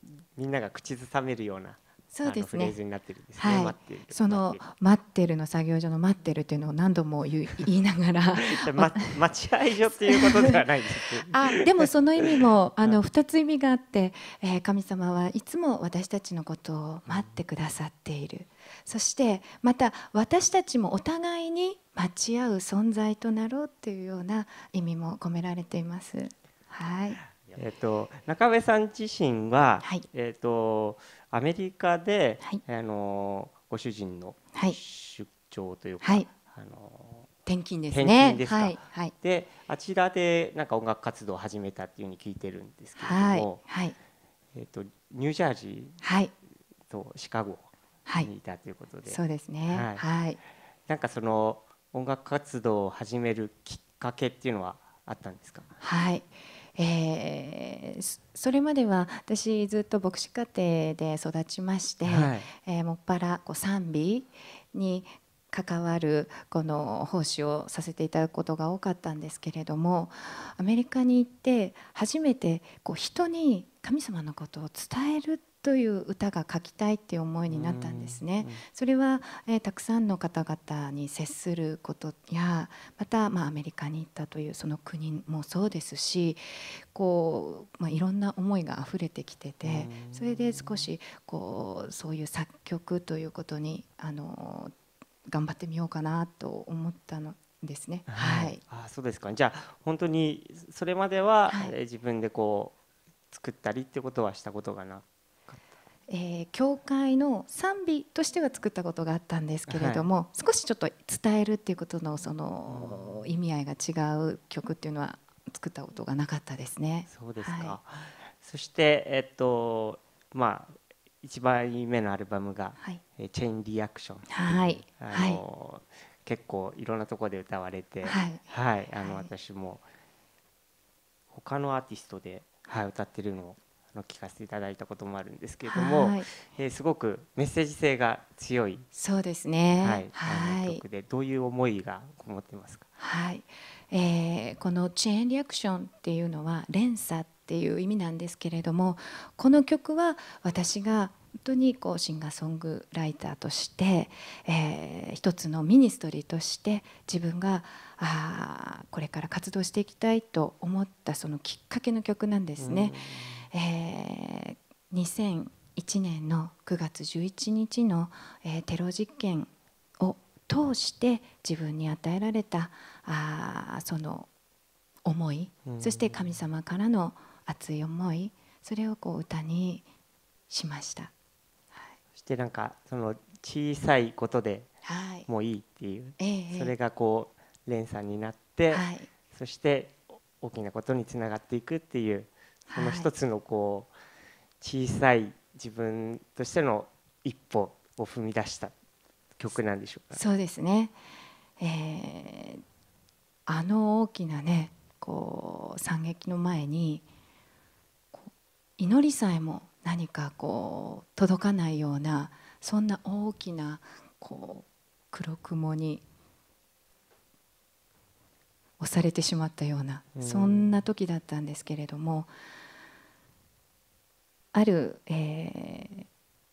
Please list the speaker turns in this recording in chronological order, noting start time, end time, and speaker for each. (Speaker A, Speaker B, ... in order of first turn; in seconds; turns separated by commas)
Speaker A: 0.3-4.6, Speaker B: 2.1-2.8, Speaker B: 3.4-9.1, Speaker A: 8.4-13.0, Speaker B: 10.1-10.6, Speaker B: 11.3-27.2, Speaker A: 17.1-17.3, Speaker A: 27.4-37.3, Speaker B: 36.0-36.3, Speaker B: 37.5-39.1, Speaker A: 37.9-43.6, Speaker B: 43.0-44.0, Speaker A: 44.5-46.0, Speaker B: 46.0-46.3, Speaker A: 46.9-47.7, Speaker A: 48.2-50.0, Speaker B: 49.1-50.4, Speaker A: 50.9-55.7, Speaker B: 55.8-94.7, Speaker A: 62.0-62.5, Speaker A: 77.5-78.6, Speaker A: 89.6-90.9, Speaker B: 95.3-98.6, Speaker A: 98.1-102.7, Speaker B: 101.5-101.7, Speaker A: 103.3-105.6, Speaker B: 106.1-117.8, Speaker A: 109.7-110.1, Speaker A: 112.7-113.1, Speaker A: 117.1-129.8, Speaker B: 124.3-125.4, Speaker B: 128.0-129.3, Speaker A: 131.3-138.9, Speaker B: 135.6-136.3, Speaker B: 138.9-140.8, Speaker A: 139.8-142.8, Speaker B: 143.0-163.0, Speaker A: 162.6-163.5, Speaker B: 163.5-174.3, Speaker B: 175.1-179.8, Speaker A: 175.7-176.2, Speaker B: 180.5-181.1, Speaker A: 182.2-184.7, Speaker B: 184.8-185.3, Speaker A: 185.2-193.9, Speaker B: 186.2-186.7, Speaker B: 188.7-189.1, Speaker B: 192.7-193.1, Speaker A: 194.6-198.7, Speaker A: 199.4-200.2, Speaker B: 200.1-200.9, Speaker B: 201.6-202.6, Speaker B: 203.4-207.0, Speaker B: 208.1-216.0, Speaker B: 218.8-222.3, Speaker A: 220.1-220.7, Speaker B: 224.5-226.1